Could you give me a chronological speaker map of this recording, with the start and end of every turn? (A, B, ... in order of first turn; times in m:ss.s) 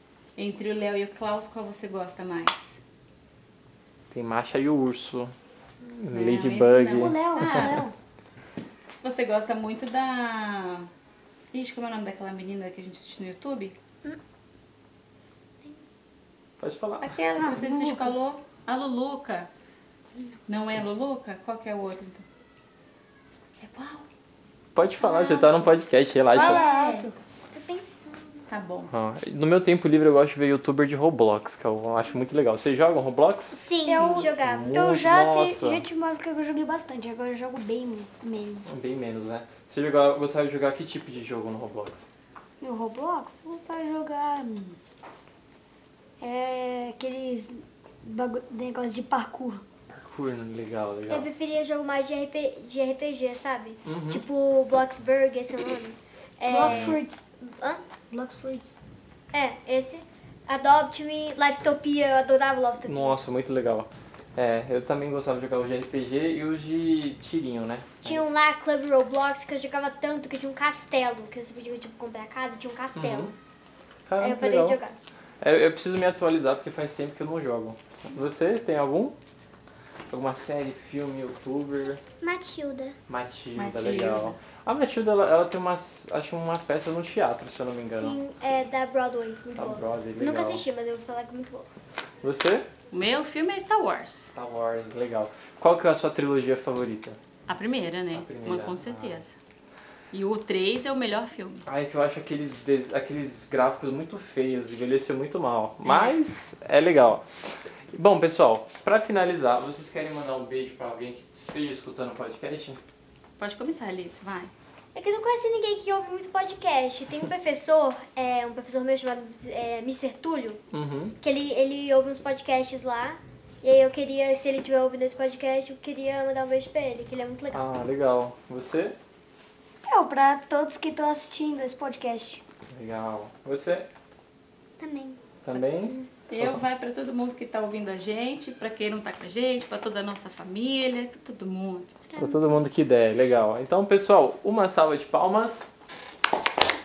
0:00.4-0:02.6 A
0:04.1-0:07.1 B
0:06.1-0:07.8 A
0:07.0-0:07.9 C
0:09.0-0:10.9 A
0:11.5-0:13.8 A
0:16.6-0:17.1 B
0:17.0-0:19.5 A
0:17.4-0:18.2 C
0:20.5-0:22.2 A
0:23.6-0:24.1 A
0:24.8-0:26.6 B
0:24.8-0:25.7 A
0:26.3-0:27.1 C
0:26.3-0:27.1 A
0:27.5-0:28.5 D
0:28.5-0:28.9 A
0:28.9-0:35.8 B
0:33.5-0:34.3 D
0:33.8-0:38.7 C
0:34.0-0:34.7 E
0:38.6-0:42.1 B
0:42.6-0:44.8 C
0:46.2-0:49.6 C
0:49.9-0:51.3 B
0:51.1-0:57.8 E
0:53.8-0:54.2 B
0:56.4-0:57.2 C
0:56.6-0:57.0 B
0:58.1-0:58.8 C
0:59.3-1:03.2 E
1:02.9-1:08.3 B
1:08.0-1:13.3 E
1:12.9-1:13.3 B
1:14.1-1:14.8 B
1:14.2-1:15.0 E
1:15.4-1:19.2 B
1:20.1-1:22.0 B
1:22.2-1:23.0 D
1:23.1-1:28.2 B
1:23.5-1:24.4 A
1:27.9-1:31.7 E
1:29.6-1:30.6 B
1:32.2-1:32.7 B
1:32.9-1:34.3 A
1:34.3-1:37.2 B
1:37.5-1:39.3 A
1:38.1-1:39.2 B
1:40.1-1:41.6 A
1:41.6-1:47.2 B
1:45.8-1:46.2 A
1:47.9-1:52.8 B
1:53.4-1:54.5 A
1:54.9-2:00.6 E
2:00.7-2:01.2 B
2:01.2-2:07.6 E
2:07.5-2:09.0 B
2:09.8-2:12.4 C
2:12.7-2:13.9 B
2:14.8-2:15.3 D
2:15.4-2:16.5 B
2:16.1-2:22.0 A
2:22.1-2:22.7 D
2:22.2-2:25.7 B